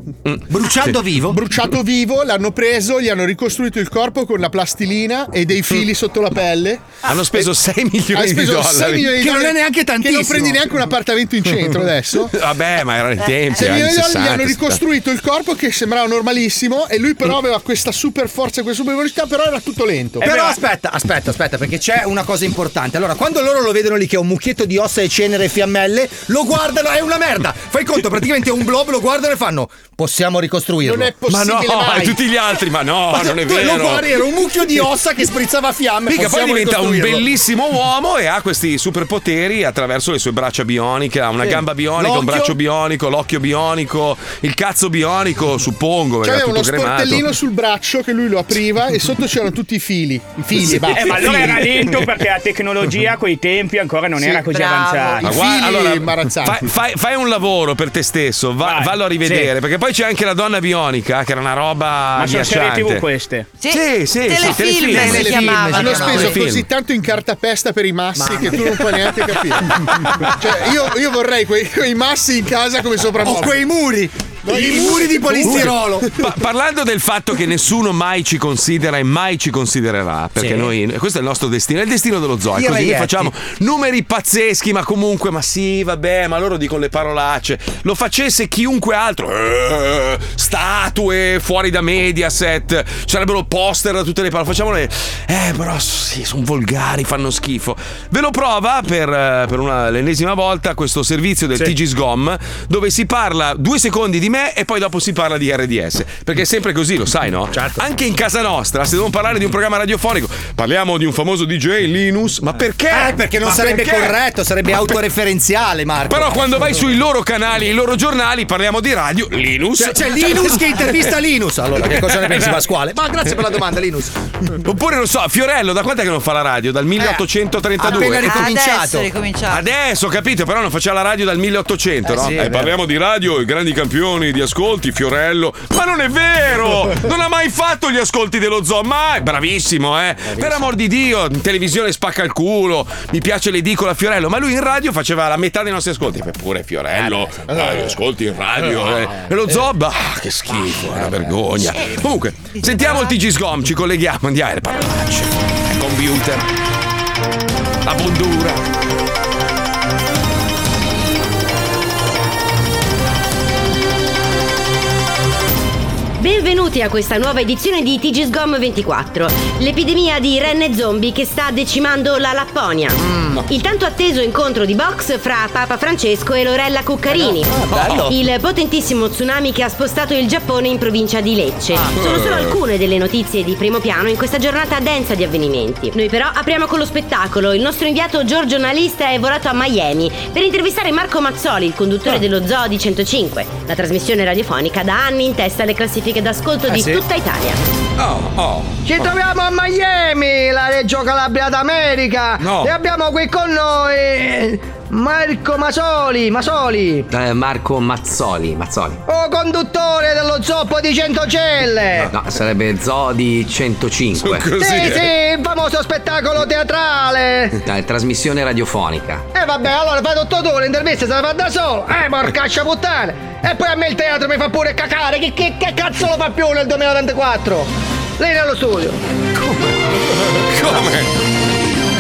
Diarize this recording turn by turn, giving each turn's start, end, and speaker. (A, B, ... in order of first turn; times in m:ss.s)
0:00.3-0:00.9 A
0:00.5-0:01.4 B
0:01.3-0:07.5 C
0:07.0-0:09.2 A
0:08.1-0:12.4 C
0:09.2-0:10.7 B
0:12.3-0:14.8 A
0:13.5-0:20.3 C
0:20.2-0:31.1 B
0:20.2-0:20.6 D
0:30.8-0:32.2 C
0:31.3-0:34.1 A
0:33.1-0:37.0 B
0:36.1-0:47.3 A
0:36.3-0:36.6 C
0:41.4-0:42.6 B
0:46.2-0:51.8 C
0:50.9-0:55.3 D
0:54.3-0:55.3 E
0:55.2-0:56.7 C
0:55.2-1:03.1 A
0:58.6-0:59.4 D
1:02.2-1:03.5 D
1:03.6-1:06.3 E
1:03.7-1:05.4 A
1:04.6-1:06.5 B
1:05.1-1:13.6 C
1:06.2-1:06.7 A
1:08.2-1:08.9 B
1:13.2-1:16.1 B
1:14.4-1:15.8 C
1:15.4-1:54.2 A
1:20.4-1:20.7 B
1:22.5-1:23.3 B
1:52.9-1:56.4 B
1:56.1-2:01.1 A
1:59.8-2:04.2 B
2:01.9-2:02.6 A
2:04.6-2:08.6 A
2:07.8-2:09.1 B
2:07.8-2:09.7 E
2:09.5-2:36.5 A
2:12.0-2:12.8 B
2:20.3-2:20.7 B
2:31.9-2:33.2 E
2:37.8-2:38.6 A
2:46.2-3:17.6 F
2:57.7-2:58.0 B
2:57.7-2:58.0 A
3:02.0-3:02.4 A
3:16.7-3:17.0 B
3:18.0-3:18.8 A
3:18.9-3:24.6 G
3:22.4-3:22.7 B
3:22.4-3:22.7 A
3:25.1-3:27.0 G
3:27.1-3:29.0 H
3:29.2-3:32.1 G
3:32.0-3:34.6 H
3:34.2-3:35.1 A
3:34.7-3:35.4 B
3:34.7-3:37.5 G
3:37.5-3:39.3 H
3:39.4-3:47.6 G
3:48.2-3:48.9 G
3:50.4-3:51.1 A